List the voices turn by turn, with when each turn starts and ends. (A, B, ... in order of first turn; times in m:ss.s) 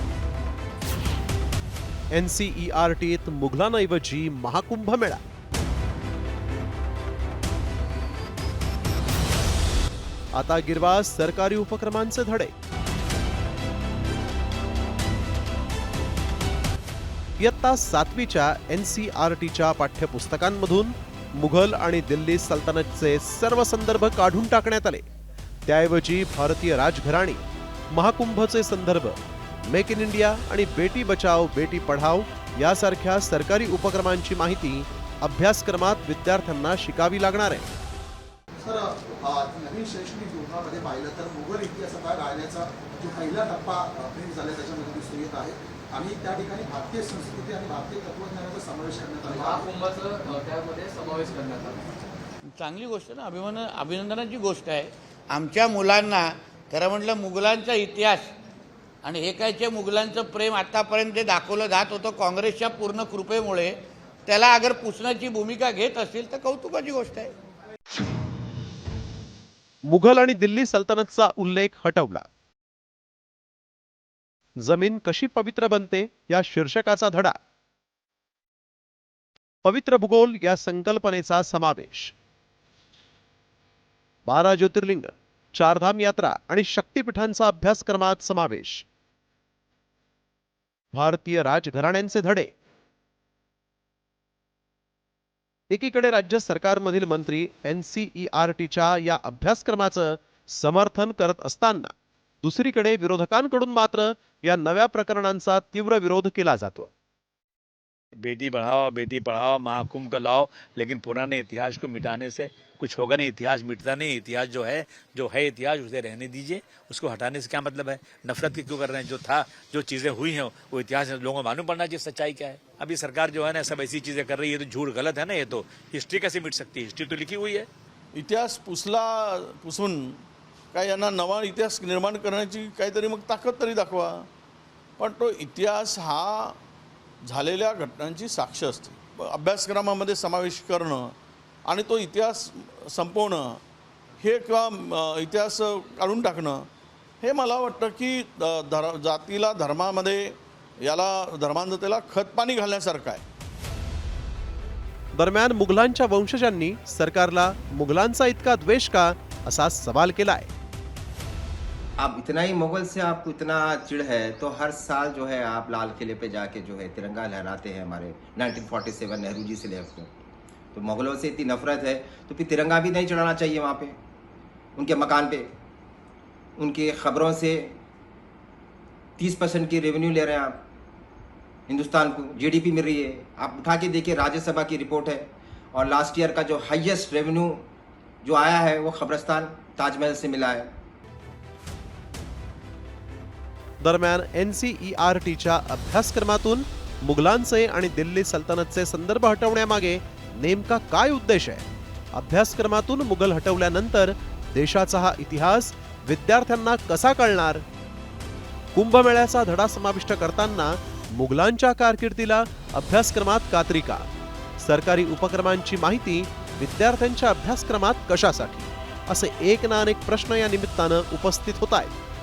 0:02.1-0:05.2 A
0:10.3-0:12.5 A
0:17.4-0:25.0 A
0:25.6-0:37.7 A
0:38.6-0:49.5 B
0:49.2-0:51.8 C
0:52.6-0:58.3 D
0:59.0-1:03.7 D
1:04.2-1:07.3 D
1:09.9-1:12.2 A
1:14.6-1:17.4 A
1:19.6-1:22.1 A
1:24.3-1:28.8 A
1:30.9-1:32.5 A
1:35.7-1:41.9 A
1:42.4-1:46.9 A
1:48.2-2:07.7 E
2:08.2-2:10.2 F
2:10.7-2:14.3 F
2:15.0-2:16.6 F
2:17.3-2:21.1 F
2:21.7-2:23.6 F
2:24.2-2:26.6 F
2:27.2-2:30.3 F
2:30.8-2:33.2 F
2:35.2-2:40.5 A
2:42.0-2:50.1 G
2:50.7-2:54.0 G
2:54.8-2:55.5 G
2:56.6-2:57.8 G
2:59.2-3:00.6 G
3:01.7-3:07.6 G
3:08.2-3:10.7 G
3:13.8-3:27.6 A
3:28.7-3:34.1 A
3:34.6-3:42.0 A